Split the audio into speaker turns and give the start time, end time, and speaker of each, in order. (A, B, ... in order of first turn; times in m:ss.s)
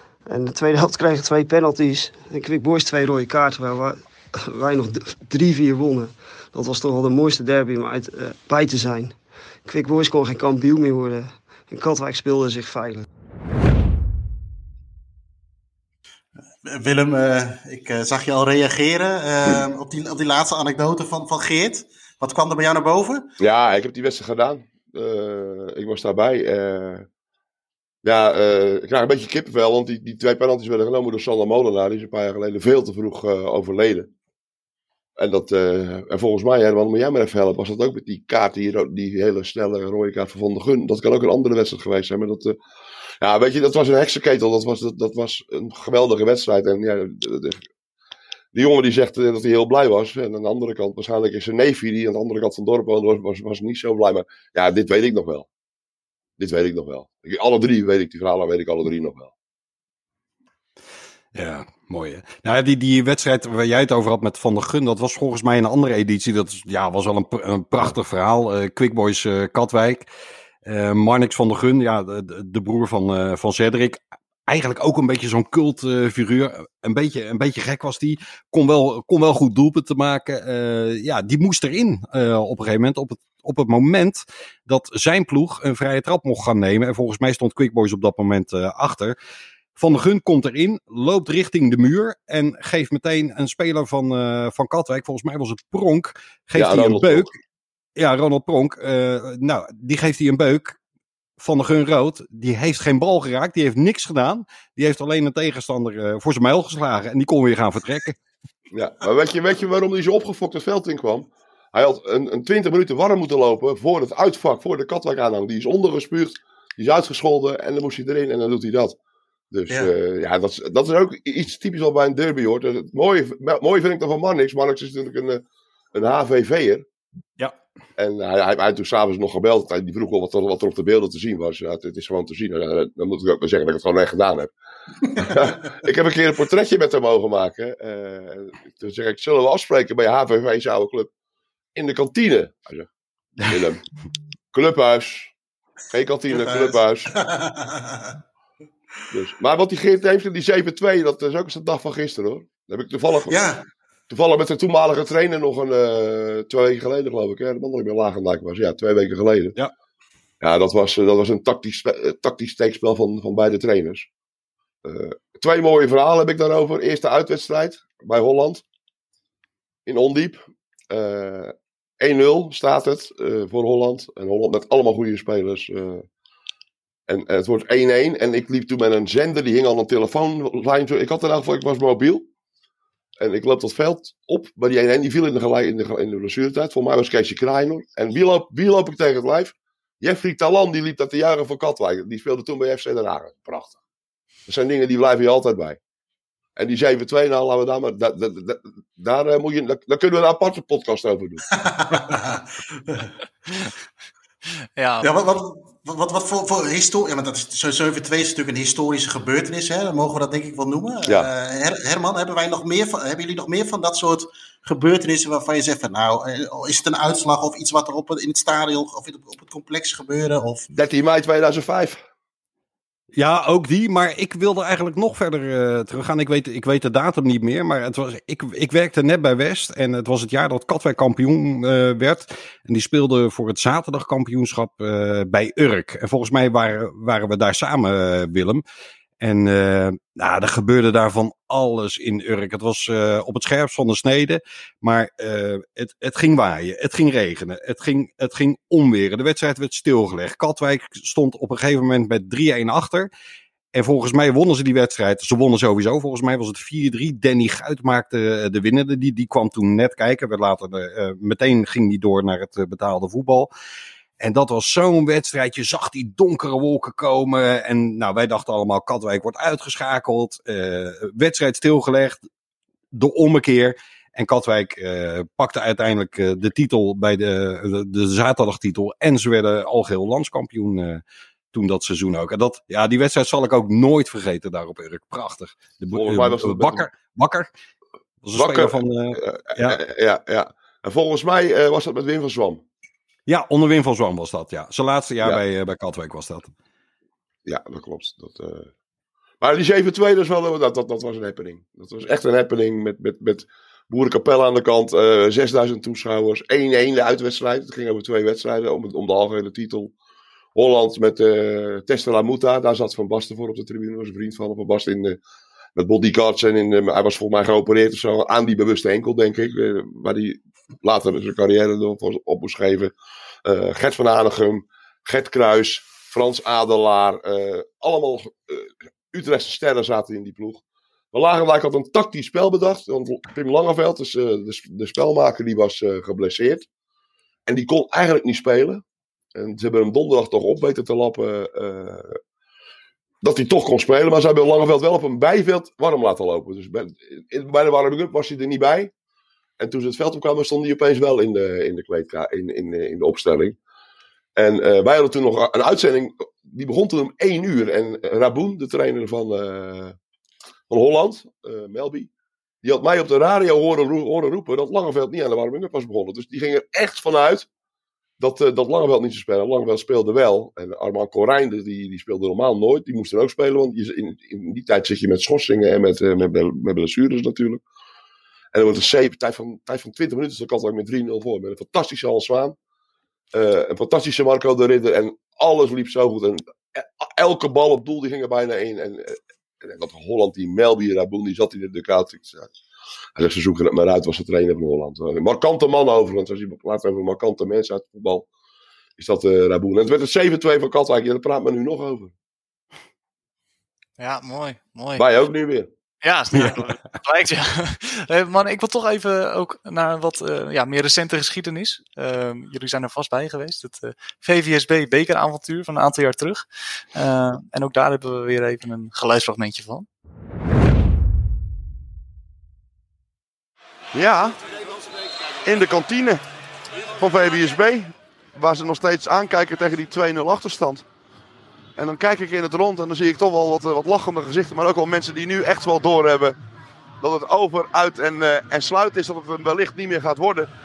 0:00.3-0:13.1 A
0:16.6-0:23.3 B
0:23.4-0:27.1 C
0:28.0-0:34.1 C
0:35.2-0:42.6 C
0:43.2-0:47.6 C
0:48.5-0:55.5 C
0:56.4-0:59.3 C
1:01.3-1:10.1 D
1:10.6-1:29.2 D
1:29.8-1:37.3 D
1:36.6-1:37.3 C
1:38.0-1:40.8 D
1:41.4-1:48.2 D
1:48.7-1:59.0 C
1:59.5-2:06.8 C
2:08.0-2:14.5 C
2:15.1-2:21.1 C
2:21.8-2:22.9 C
2:23.4-2:23.8 C
2:24.5-2:25.3 C
2:25.9-2:27.1 C
2:26.3-2:28.2 B
2:29.1-2:33.4 C
2:33.3-2:33.6 B
2:34.1-2:39.6 C
2:40.4-2:44.1 C
2:44.8-2:48.6 C
2:49.9-2:56.0 C
2:57.1-3:02.2 C
3:03.2-3:13.8 C
3:14.5-3:15.8 C
3:16.6-3:21.4 C
3:21.6-3:23.1 B
3:24.8-3:25.1 E
3:25.0-3:40.7 B
3:40.7-3:42.0 C
3:43.2-3:58.6 D
3:59.2-4:13.1 D
4:13.7-4:23.5 D
4:24.2-4:32.3 D
4:32.9-4:41.0 D
4:41.5-4:47.5 D
4:45.9-4:46.9 C
4:48.2-4:49.8 D
4:48.4-4:52.6 C
4:53.3-4:56.5 D
4:57.5-4:58.7 C
4:59.4-5:09.9 C
5:10.6-5:15.2 C
5:15.8-5:22.9 C
5:23.4-5:30.6 C
5:31.1-5:36.6 C
5:37.5-5:38.8 C
5:39.4-5:42.2 C
5:43.2-5:48.9 C
5:49.6-5:53.6 C
5:54.4-6:00.0 C
6:00.7-6:02.1 C
6:02.6-6:07.5 C
6:08.2-6:17.6 C
6:18.5-6:22.6 C
6:23.3-6:32.5 C
6:33.2-6:38.3 C
6:39.0-6:42.1 C
6:44.0-6:45.0 E
6:45.0-6:45.7 C
6:46.0-6:59.9 E
6:46.4-6:46.7 D
7:03.9-7:04.4 F
7:05.4-7:06.2 F
7:07.0-7:10.9 F
7:11.8-7:16.4 F
7:17.0-7:20.5 F